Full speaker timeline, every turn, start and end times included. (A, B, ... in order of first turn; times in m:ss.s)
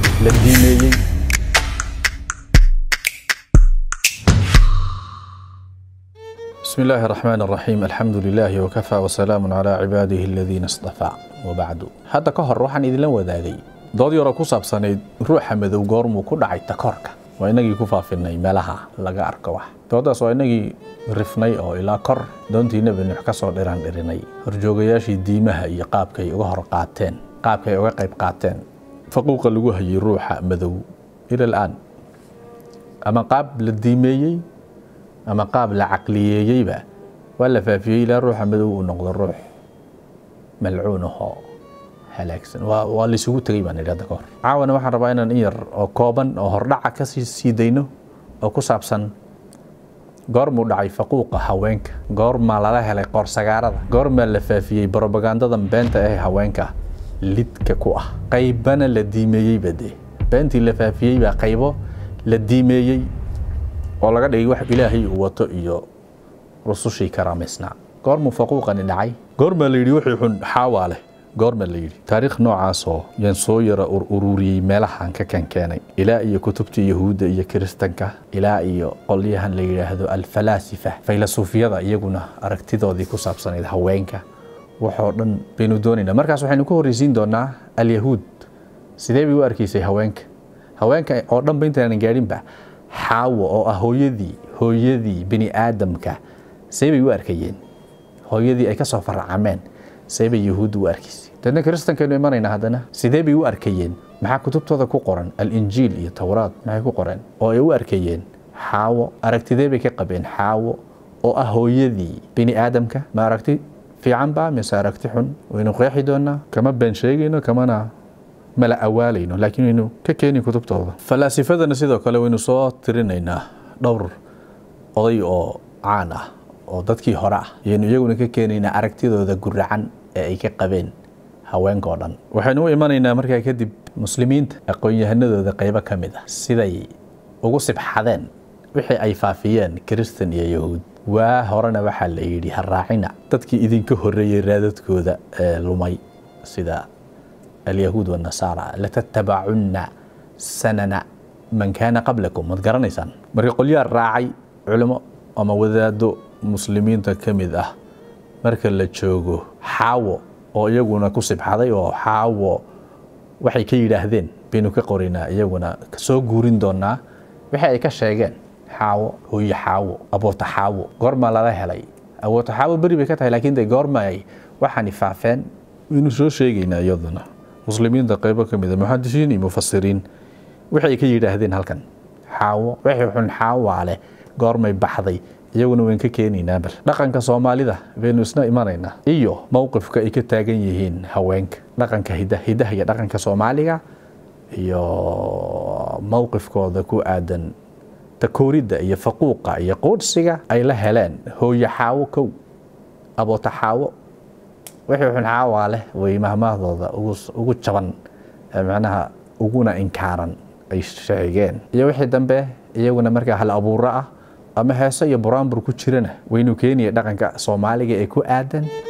0:00.2-0:01.0 A
0:06.6-0:31.8 A
0:33.1-0:34.4 A
0:35.3-0:36.8 A
0:37.4-0:39.4 A
0:40.6-0:41.4 A
0:42.1-0:47.9 A
0:48.4-0:49.1 A
0:50.3-1:03.1 A
1:04.0-1:05.9 A
1:06.6-1:24.2 A
1:24.8-1:28.5 A
1:29.0-1:36.2 A
1:36.7-1:37.6 A
1:38.3-1:57.9 A
1:58.6-2:04.1 A
2:05.0-2:10.9 A
2:11.5-2:16.9 A
2:17.4-2:26.9 A
2:27.7-2:37.7 A
2:38.4-2:42.6 A
2:43.4-2:47.0 A
2:47.5-3:00.0 A
3:00.7-3:13.8 A
3:14.5-3:17.5 A
3:18.2-3:22.3 A
3:23.2-3:23.9 A
3:24.9-3:28.0 A
3:28.5-3:38.7 A